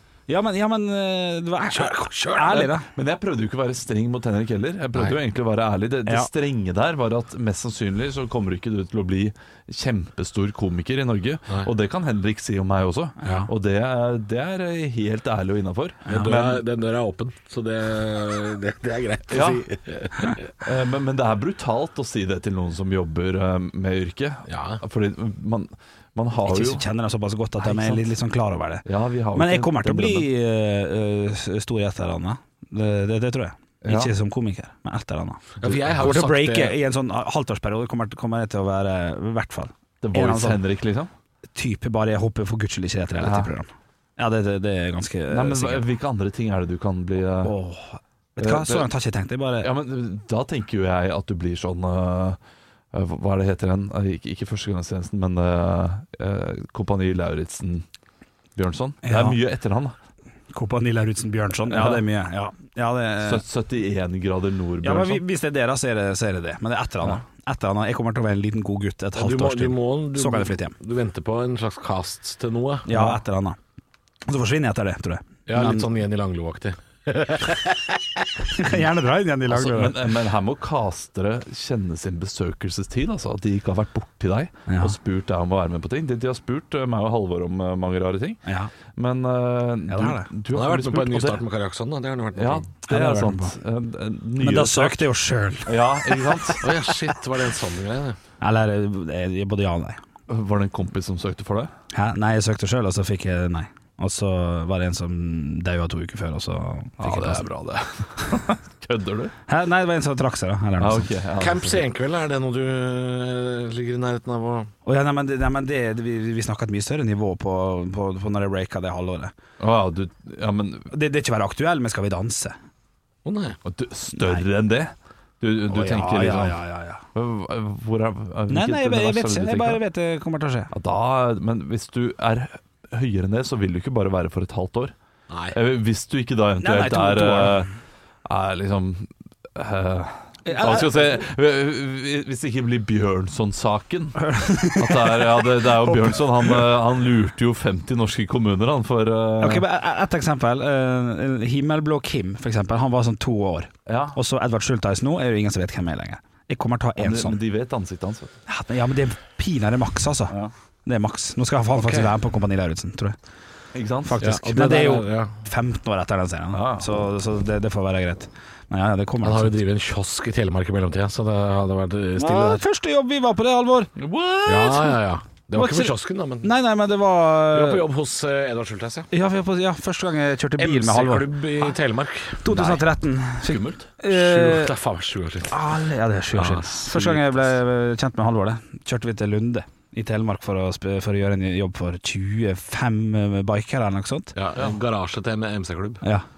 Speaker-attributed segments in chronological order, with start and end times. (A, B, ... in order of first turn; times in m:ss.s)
0:00.3-0:02.9 A
0:01.7-0:02.7 B
0:02.8-0:16.6 C
0:13.2-0:13.5 A
0:16.1-0:20.5 B
0:19.3-0:19.6 C
0:20.6-0:26.8 C
0:24.5-0:24.8 B
0:26.4-0:35.4 A
0:27.6-0:28.0 C
0:28.8-0:30.3 C
0:33.8-0:34.1 C
0:35.6-0:36.8 B
0:35.6-0:36.1 C
0:36.0-0:40.6 A
0:40.0-0:41.1 C
0:41.5-0:45.8 A
0:43.2-0:43.5 C
0:45.3-0:47.5 C
0:47.4-0:49.7 A
0:48.4-0:48.9 C
0:49.6-0:52.4 C
0:52.9-0:57.8 C
0:58.6-0:59.9 C
0:59.0-0:59.4 A
1:00.5-1:03.4 A
1:01.7-1:02.0 C
1:03.2-1:05.2 C
1:04.8-1:10.7 A
1:09.2-1:13.1 B
1:12.9-1:13.6 A
1:14.3-1:15.9 A
1:15.5-1:18.2 B
1:18.5-1:20.0 A
1:19.5-1:28.4 C
1:24.7-1:24.9 A
1:28.4-1:28.7 A
1:28.9-1:31.4 C
1:29.9-1:30.3 A
1:30.5-1:32.7 B
1:32.4-1:35.0 C
1:32.8-1:33.5 A
1:34.4-1:36.6 A
1:35.6-1:36.6 C
1:36.6-1:38.2 B
1:38.4-1:40.0 A
1:40.3-1:41.7 C
1:41.9-1:47.4 A
1:47.0-1:49.3 C
1:49.5-1:51.1 A
1:50.8-1:51.8 C
1:51.4-1:54.7 B
1:54.8-1:59.3 A
1:59.6-2:00.9 C
2:00.9-2:02.6 A
2:03.2-2:03.6 B
2:03.6-2:06.6 C
2:04.1-2:04.4 A
2:05.7-2:07.0 A
2:07.1-2:09.8 C
2:08.5-2:10.7 A
2:10.7-2:14.9 C
2:15.3-2:15.6 B
2:15.5-2:17.7 C
2:16.6-2:17.7 A
2:18.2-2:29.6 C
2:20.4-2:21.2 A
2:24.2-2:26.6 A
2:29.4-2:37.4 A
2:33.8-2:34.2 C
2:37.0-2:38.3 C
2:38.5-2:43.2 A
2:41.8-2:42.1 B
2:43.7-2:44.2 C
2:44.0-2:49.6 A
2:44.2-2:45.3 B
2:46.5-2:46.8 C
2:49.2-2:52.6 B
2:52.2-2:53.9 A
2:54.0-2:55.0 C
2:54.4-2:56.5 B
2:55.5-2:57.8 A
2:57.5-2:59.1 B
2:59.1-3:01.4 A
3:00.6-3:02.8 B
3:02.4-3:04.7 A
3:03.4-3:03.9 C
3:04.1-3:05.6 B
3:05.5-3:14.3 A
3:06.3-3:07.5 B
3:14.3-3:16.0 B